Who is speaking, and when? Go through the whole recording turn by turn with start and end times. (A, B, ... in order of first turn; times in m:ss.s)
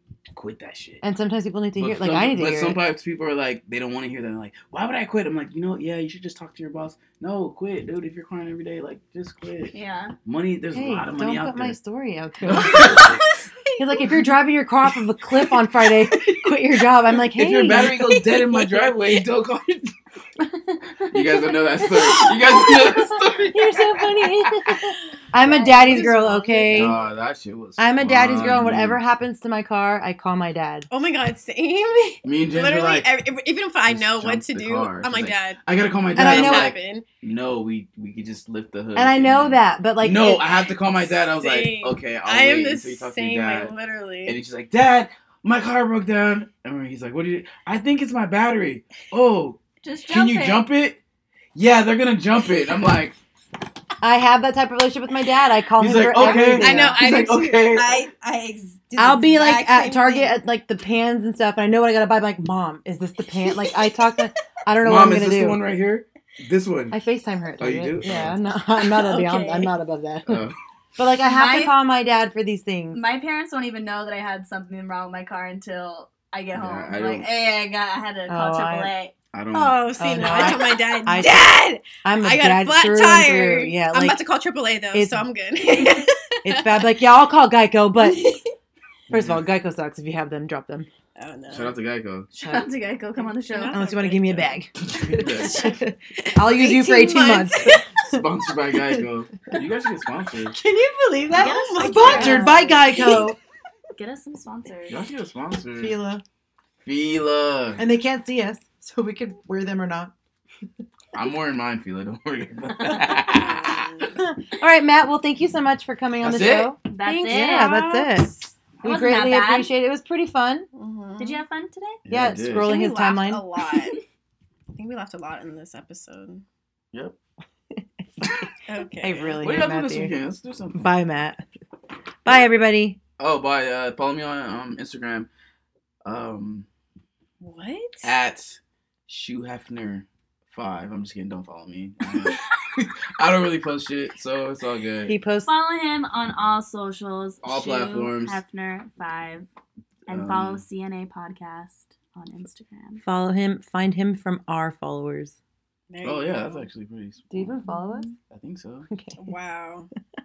0:00.3-0:01.0 A
0:01.0-0:02.8 B
0:01.8-0:09.7 A
0:09.7-0:10.1 C
0:10.2-0:11.8 A
0:10.7-0:13.1 B
0:12.4-0:13.2 A
0:12.6-0:14.3 D
0:13.8-0:18.0 B
0:17.4-0:19.9 A
0:17.7-0:19.0 D
0:21.1-0:24.7 A
0:21.1-0:21.4 B
0:22.2-0:23.0 D
0:23.5-0:27.0 B
0:25.3-0:27.1 D
0:26.7-0:29.0 A
0:27.8-0:30.9 B
0:30.9-0:35.6 D
0:32.2-0:33.1 A
0:33.9-0:43.7 A
0:36.2-0:36.7 B
0:36.2-0:37.0 D
0:39.0-0:40.6 B
0:40.9-0:44.4 D
0:44.2-0:51.0 A
0:49.8-0:50.6 C
0:51.5-0:53.2 A
0:54.0-0:57.0 B
0:55.8-0:58.1 A
0:56.2-1:00.4 D
0:59.0-1:05.6 B
1:03.4-1:04.2 D
1:04.8-1:07.0 A
1:06.9-1:10.4 B
1:07.6-1:08.4 A
1:08.8-1:09.7 C
1:10.3-1:10.6 A
1:11.0-1:13.0 B
1:11.2-1:11.7 C
1:12.9-1:19.1 C
1:16.5-1:17.3 A
1:18.3-1:18.9 B
1:19.3-1:19.8 A
1:19.5-1:26.9 D
1:20.0-1:24.2 B
1:24.9-1:25.2 B
1:26.4-1:28.3 B
1:28.0-1:28.5 D
1:29.1-1:30.9 B
1:29.1-1:29.4 A
1:31.2-1:31.7 D
1:31.5-1:32.3 A
1:32.3-1:33.8 C
1:32.4-1:32.7 B
1:33.2-1:34.6 D
1:33.7-1:38.3 B
1:34.9-1:35.7 A
1:35.3-1:35.8 D
1:36.4-1:37.8 D
1:38.0-1:40.6 A
1:40.5-1:43.4 B
1:41.2-1:43.3 D
1:41.3-1:42.9 C
1:44.0-1:45.0 C
1:44.9-1:45.9 A
1:45.8-1:46.2 B
1:46.8-1:47.8 A
1:47.8-1:50.1 B
1:51.1-1:54.1 A
1:53.2-1:54.2 D
1:54.2-2:00.7 B
1:56.2-1:56.7 A
1:56.8-1:57.9 C
1:57.0-1:58.1 D
1:58.8-1:59.7 C
2:00.7-2:01.4 D
2:01.2-2:02.0 C
2:02.0-2:02.7 A
2:02.1-2:03.4 B
2:02.5-2:04.0 D
2:04.7-2:06.4 D
2:08.6-2:09.4 D
2:09.0-2:10.1 B
2:09.4-2:10.9 A
2:10.7-2:11.4 B
2:12.2-2:13.0 B
2:13.2-2:15.3 A
2:16.0-2:16.7 A
2:17.4-2:18.1 D
2:18.0-2:25.1 A
2:25.1-2:25.5 B
2:25.4-2:29.5 C
2:27.4-2:28.4 A
2:30.1-2:33.0 C
2:30.1-2:30.6 A
2:33.0-2:35.4 B
2:35.9-2:36.7 D
2:36.0-2:37.3 A
2:37.3-2:38.1 B
2:37.6-2:38.1 C
2:38.3-2:38.9 A
2:38.9-2:39.3 B
2:39.2-2:39.9 D